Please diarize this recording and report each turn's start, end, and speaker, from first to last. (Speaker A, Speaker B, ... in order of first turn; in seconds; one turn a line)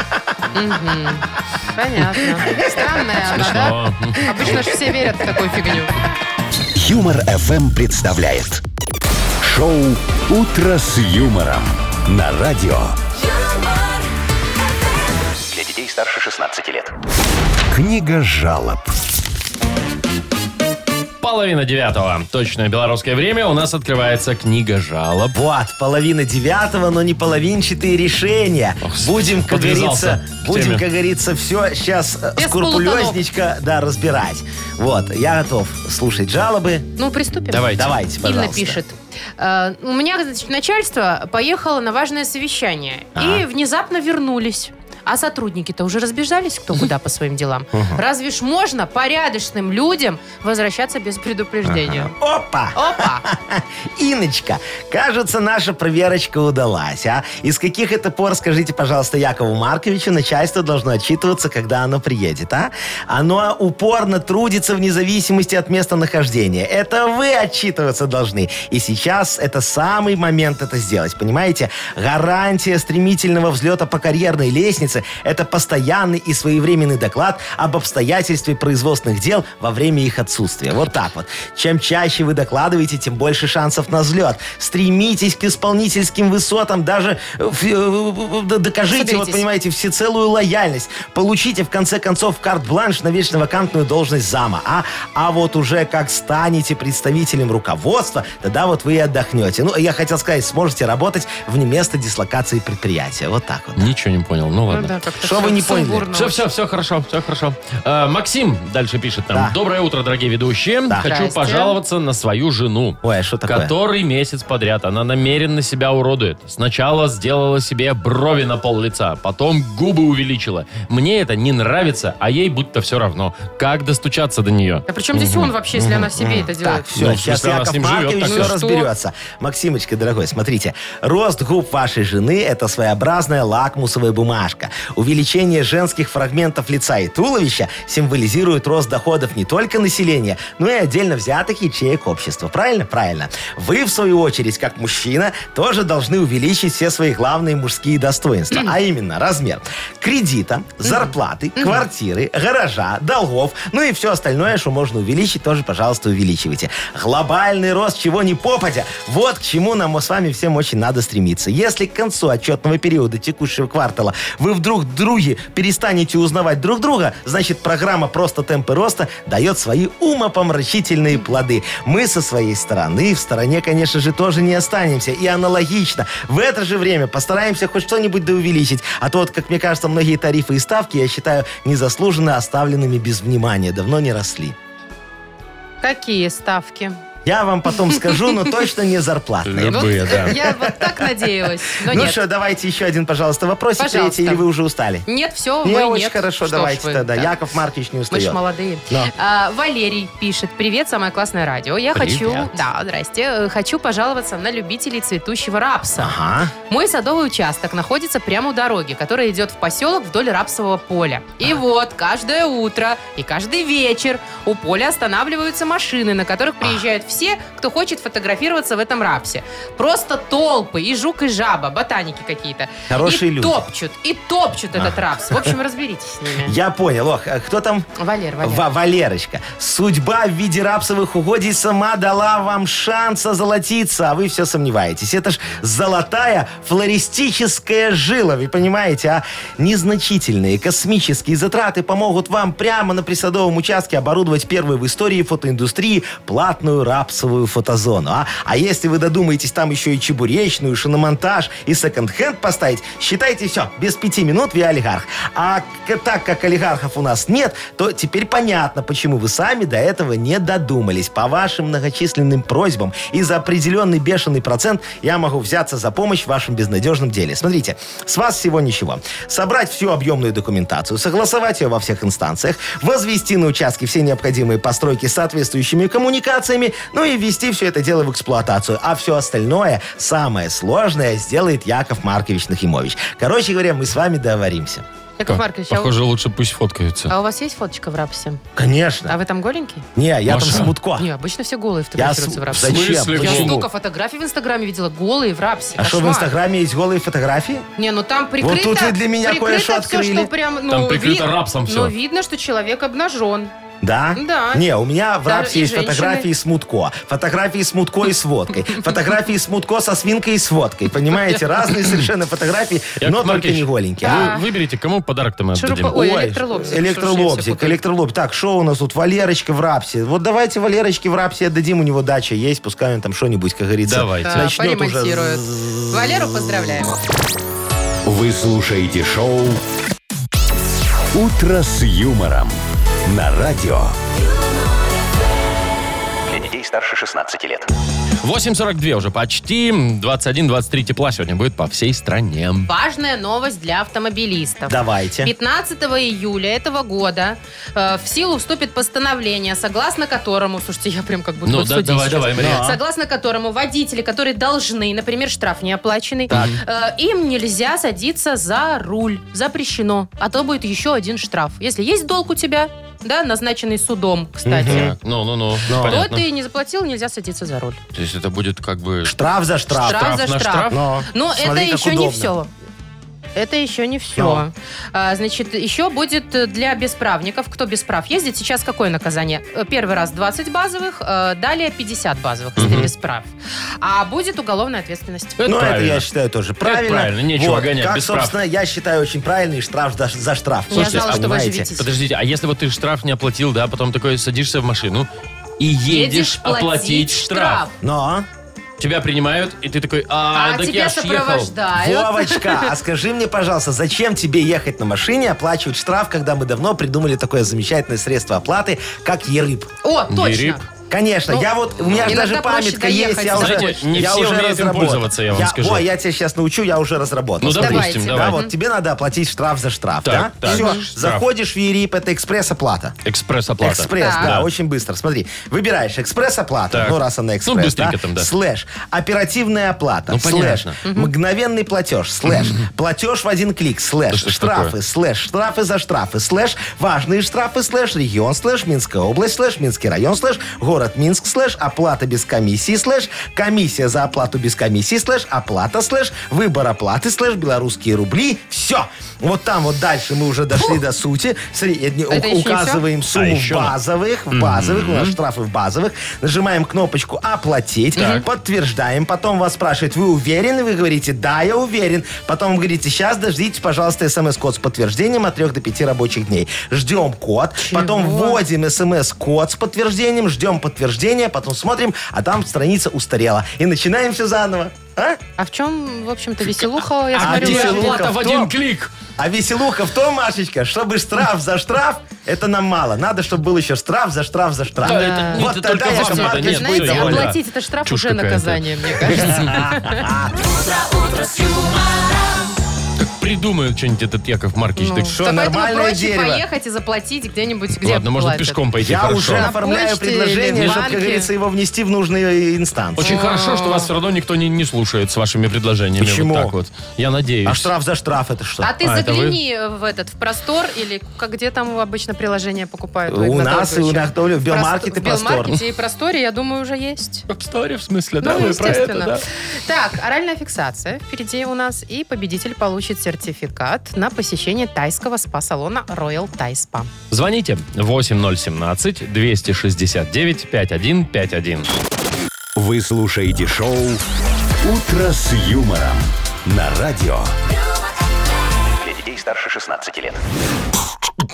Speaker A: 0.5-5.9
Speaker B: 3.3-4.6
Speaker C: 6.8-8.6
Speaker C: 9.4-13.0
Speaker D: 13.3-13.8
Speaker E: 15.5-16.9
Speaker C: 17.7-18.9
Speaker B: 21.2-25.4
Speaker F: 25.3-36.9
Speaker B: 28.8-30.8
Speaker A: 32.4-33.2
Speaker A: 37.0-52.1
Speaker B: 37.5-37.9
Speaker F: 37.7-38.8
Speaker F: 43.1-43.4
Speaker F: 47.7-48.0
Speaker F: 51.6-103.9
Speaker A: 52.7-53.2
Speaker A: 88.9-89.4
Speaker B: 103.8-105.0
Speaker A: 104.7-106.4
Speaker F: 105.2-106.1
Speaker B: 106.1-125.5
Speaker A: 111.0-111.8
Speaker F: 113.0-113.7
Speaker A: 124.9-126.9
Speaker F: 125.7-184.6
Speaker B: 127.0-128.5
Speaker A: 128.2-128.9
Speaker A: 150.8-151.8
Speaker A: 185.8-187.0
Speaker F: 187.2-195.1
Speaker A: 187.8-188.5
Speaker B: 189.4-190.3
Speaker A: 189.7-192.2
Speaker A: 193.8-194.4
Speaker A: 195.1-197.3
Speaker F: 195.6-199.1
Speaker A: 198.1-206.1
Speaker B: 201.9-202.4
Speaker F: 202.1-202.4
Speaker F: 206.0-206.5
Speaker A: 206.7-226.5
Speaker F: 222.9-223.6
Speaker F: 224.8-225.5
Speaker F: 226.4-227.9
Speaker A: 227.9-228.7
Speaker F: 228.4-284.8
Speaker A: 285.2-285.9
Speaker B: 285.3-287.1
Speaker A: 287.1-288.4
Speaker F: 288.5-289.1
Speaker A: 289.1-289.8
Speaker F: 289.9-291.1
Speaker B: 290.3-290.7
Speaker A: 291.0-296.3
Speaker F: 291.9-293.6
Speaker B: 292.6-293.6
Speaker F: 295.8-297.7
Speaker A: 297.8-303.5
Speaker F: 298.4-300.3
Speaker B: 300.7-301.9
Speaker F: 303.8-314.3
Speaker A: 304.1-304.6
Speaker A: 305.2-306.3
Speaker B: 313.0-315.9
Speaker A: 314.0-314.4
Speaker A: 315.5-317.8
Speaker F: 315.9-325.9
Speaker B: 323.9-324.5
Speaker A: 324.2-326.9
Speaker C: 328.0-329.6
Speaker C: 331.1-333.9
Speaker E: 336.3-337.7
Speaker B: 338.2-342.7
Speaker A: 342.6-364.9
Speaker F: 344.7-345.3
Speaker B: 351.4-352.7
Speaker F: 352.4-352.8
Speaker B: 356.3-356.6
Speaker F: 364.4-364.9
Speaker B: 364.6-366.2
Speaker F: 365.7-366.0
Speaker A: 365.8-367.8
Speaker B: 367.9-369.1
Speaker F: 369.0-370.1
Speaker B: 369.7-370.8
Speaker A: 369.8-372.5
Speaker F: 370.7-372.3
Speaker A: 373.3-385.4
Speaker F: 374.1-374.4
Speaker B: 382.6-382.9
Speaker B: 385.4-386.1
Speaker F: 385.4-391.7
Speaker B: 386.6-388.4
Speaker A: 390.7-391.9
Speaker B: 390.7-391.2
Speaker B: 391.8-395.1
Speaker B: 395.6-397.6
Speaker A: 395.9-397.8
Speaker F: 397.8-398.3
Speaker B: 398.8-401.5
Speaker A: 400.3-402.7
Speaker F: 401.7-409.7
Speaker A: 409.8-410.6
Speaker B: 410.1-410.6
Speaker F: 410.9-423.0
Speaker A: 412.1-414.1
Speaker B: 413.4-415.9
Speaker B: 417.4-418.4
Speaker A: 417.5-418.5
Speaker B: 420.0-421.2
Speaker A: 420.4-420.8
Speaker B: 423.0-424.5
Speaker F: 423.6-475.2
Speaker A: 423.9-424.3
Speaker B: 426.7-428.3
Speaker B: 430.1-430.8
Speaker A: 430.8-431.1
Speaker B: 432.3-432.6
Speaker B: 434.1-434.7
Speaker A: 452.1-452.8
Speaker B: 453.1-453.7
Speaker B: 454.3-455.2
Speaker B: 458.0-458.2
Speaker A: 458.0-458.2
Speaker A: 467.6-468.4
Speaker A: 475.4-478.1
Speaker B: 477.1-478.9
Speaker F: 477.2-478.5
Speaker F: 479.2-487.3
Speaker B: 484.8-489.7
Speaker A: 484.8-490.1
Speaker F: 489.1-490.3
Speaker D: 490.3-492.5
Speaker B: 493.0-495.2
Speaker A: 494.8-498.6
Speaker F: 495.1-496.4
Speaker B: 497.8-499.5
Speaker F: 498.8-503.1
Speaker A: 499.3-501.3
Speaker B: 500.5-500.8
Speaker B: 503.0-507.7
Speaker A: 503.0-503.9
Speaker F: 506.0-506.5
Speaker F: 507.4-508.7
Speaker A: 508.6-517.2
Speaker B: 508.8-509.4
Speaker F: 513.1-515.5
Speaker B: 517.3-519.2
Speaker A: 518.2-526.9
Speaker B: 527.1-531.7
Speaker C: 532.5-534.0
Speaker C: 534.6-537.3
Speaker E: 538.8-540.2